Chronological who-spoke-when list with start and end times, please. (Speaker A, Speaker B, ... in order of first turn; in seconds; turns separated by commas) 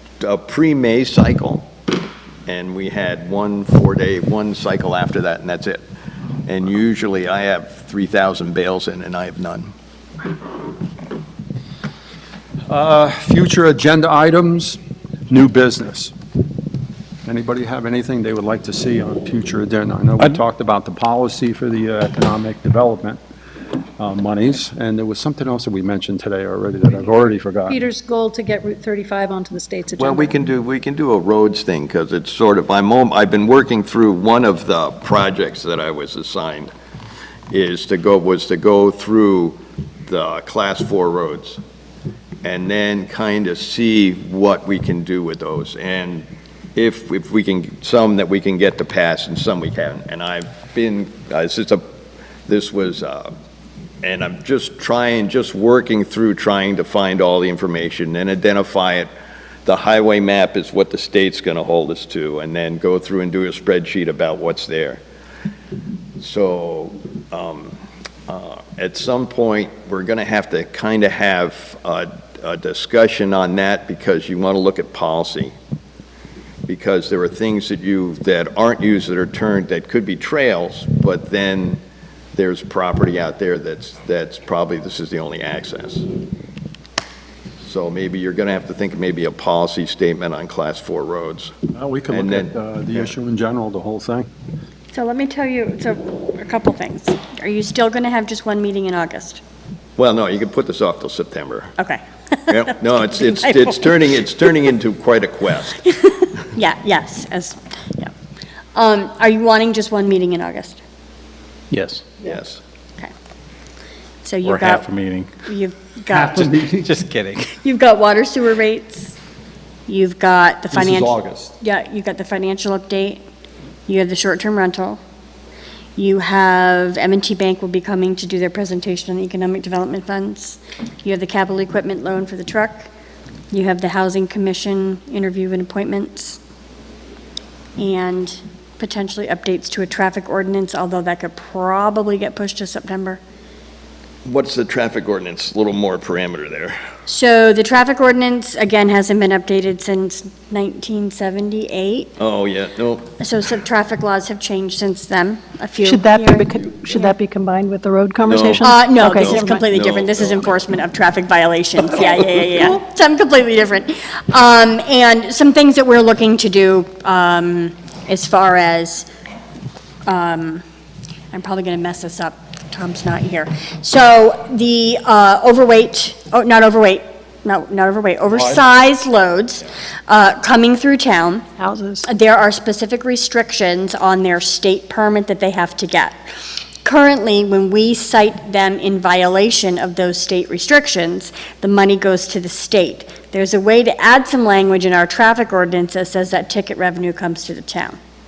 Speaker A: 0.2-1.7, Speaker A: 2.5-5.8, Speaker A: 6.4-9.7, Speaker B: 12.7-16.1, Speaker B: 17.2-23.2, Speaker B: 24.0-27.8, Speaker C: 27.7-30.3, Speaker A: 29.9-36.7, Speaker A: 37.5-41.6, Speaker A: 42.4-51.8, Speaker A: 52.5-53.3, Speaker A: 54.0-59.1, Speaker A: 59.6-65.0, Speaker A: 66.2-75.5, Speaker A: 76.7-81.8, Speaker A: 82.3-86.0, Speaker A: 87.6-91.5, Speaker B: 91.7-94.3, Speaker A: 92.1-93.1, Speaker D: 94.9-99.4, Speaker A: 100.0-101.7, Speaker D: 101.8-103.9, Speaker A: 102.5-105.8, Speaker D: 105.9-108.1, Speaker D: 108.7-110.8, Speaker E: 111.7-112.0, Speaker A: 112.2-112.6, Speaker D: 114.2-114.9, Speaker E: 114.4-115.3, Speaker D: 115.4-116.4, Speaker B: 116.1-116.9, Speaker E: 116.2-117.5, Speaker D: 117.6-119.1, Speaker D: 119.9-123.2, Speaker B: 120.7-121.5, Speaker D: 123.9-125.0, Speaker D: 126.0-132.9, Speaker D: 133.5-136.4, Speaker D: 137.8-143.2, Speaker A: 144.2-146.8, Speaker D: 147.1-152.1, Speaker A: 152.2-153.1, Speaker D: 153.2-157.1, Speaker C: 155.8-159.6, Speaker A: 158.2-160.6, Speaker D: 158.6-169.1, Speaker C: 162.3-162.6, Speaker D: 170.1-170.6, Speaker D: 171.3-181.4, Speaker B: 178.3-178.7, Speaker C: 181.6-182.1, Speaker D: 182.0-186.2, Speaker D: 186.8-198.0